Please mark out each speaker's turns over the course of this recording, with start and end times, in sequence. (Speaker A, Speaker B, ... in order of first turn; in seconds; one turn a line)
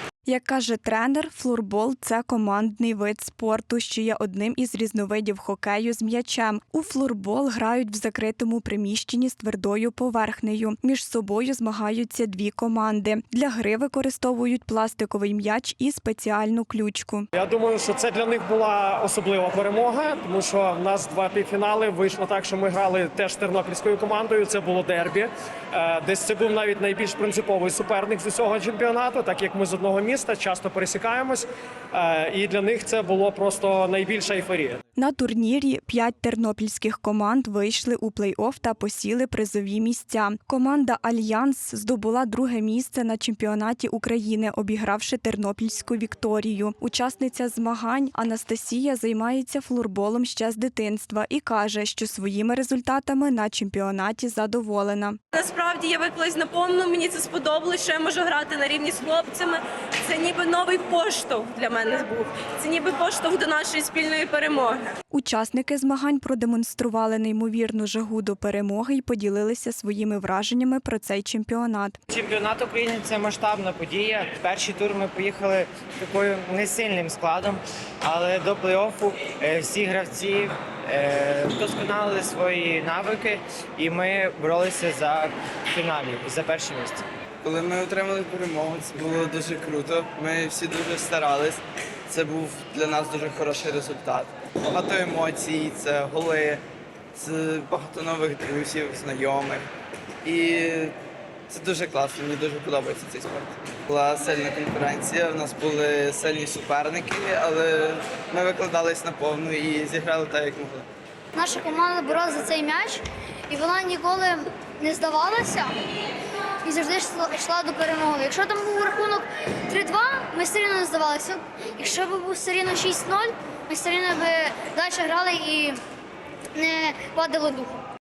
Speaker A: 0.3-17.3
Speaker B: 17.4-34.8
Speaker A: 35.0-55.2
Speaker C: 55.3-64.9
Speaker A: 65.1-72.0
Speaker D: 72.1-87.0
Speaker E: 87.4-96.6
Speaker E: 97.2-99.7
Speaker E: 100.2-101.0
Speaker E: 101.5-110.9
Speaker F: 111.3-115.7
Speaker F: 116.6-125.8
Speaker F: 126.6-127.8